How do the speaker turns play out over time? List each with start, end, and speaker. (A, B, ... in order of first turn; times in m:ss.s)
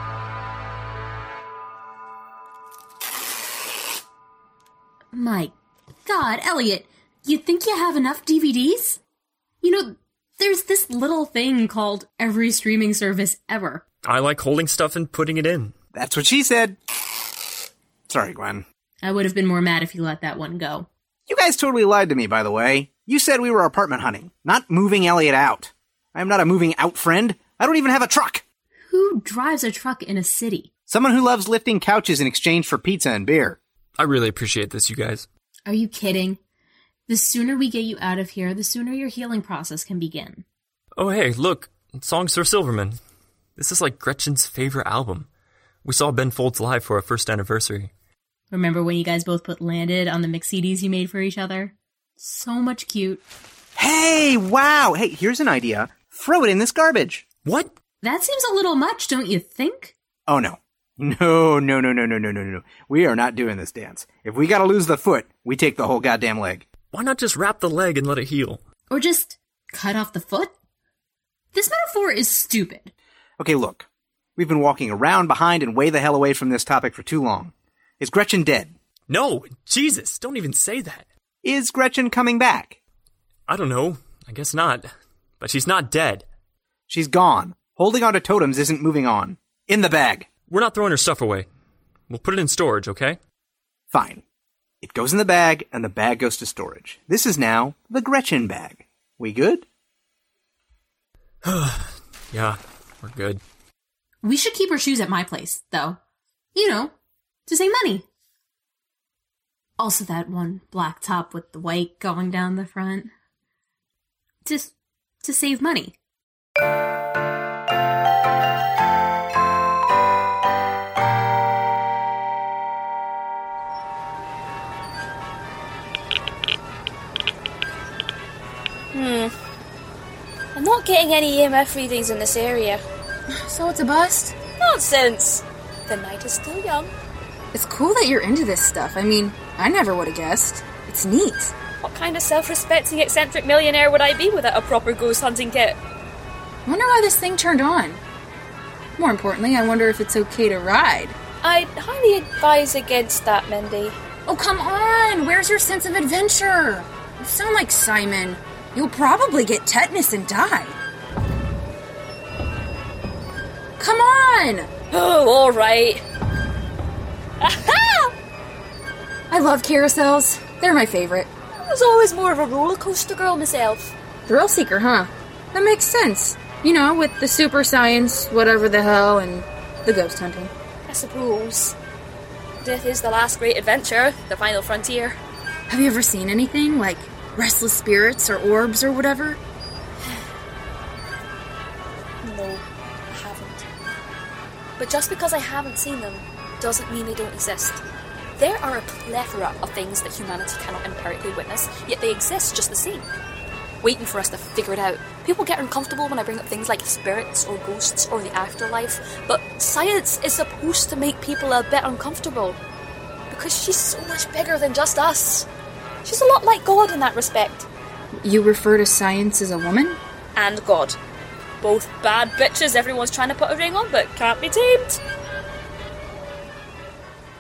0:05.1-0:05.5 A
0:06.0-0:09.0 A
0:09.6-0:13.8 A
0:14.0-0:15.8 B
0:15.9-0:16.8 C
0:18.1-0:18.6 C
0:19.0-0:20.9 A
0:21.3-0:28.4 C
0:28.9-0:30.7 A
0:30.9-0:33.6 C
0:34.0-0:35.3 B
0:35.7-0:36.4 A
0:37.1-0:40.4 A
0:41.0-0:43.0 B
0:43.6-0:45.3 B
0:45.8-0:47.9 B
0:48.5-0:53.2 A
0:53.8-0:57.3 C
0:57.4-0:57.7 B
0:58.0-0:59.9 A
1:00.3-1:06.6 C
1:06.9-1:08.6 B
1:08.9-1:10.5 A
1:11.5-1:12.9 A
1:13.4-1:18.7 C
1:19.1-1:21.1 B
1:21.4-1:22.8 C
1:23.5-1:26.3 B
1:26.9-1:30.3 C
1:30.5-1:31.5 B
1:32.1-1:33.2 B
1:33.9-1:34.2 C
1:34.8-1:39.6 C
1:41.4-1:43.4 B
1:44.2-1:46.0 A
1:46.5-1:46.9 A
1:47.5-1:48.1 A
1:49.8-1:53.1 A
1:54.4-1:56.0 A
2:08.9-2:09.3 D
2:10.6-2:12.8 D
2:13.3-2:14.4 E
2:14.6-2:16.9 D
2:17.5-2:21.6 E
2:21.8-2:25.8 D
2:26.7-2:28.0 E
2:29.0-2:31.2 E
2:31.4-2:34.0 D
2:34.3-2:40.8 E
2:43.8-2:44.7 E
2:44.9-2:46.0 D
2:47.4-2:48.1 D
2:49.3-2:51.3 E
2:51.6-2:53.9 D
2:54.3-3:00.5 E
3:00.9-3:01.8 D
3:02.6-3:05.2 D
3:05.7-3:09.4 E
3:12.2-3:13.7 D
3:14.8-3:17.8 D
3:18.4-3:23.1 D
3:23.8-3:32.6 D
3:33.3-3:35.5 D
3:36.0-3:37.7 D
3:38.2-3:40.0 E
3:40.4-3:41.0 D
3:41.6-3:45.0 D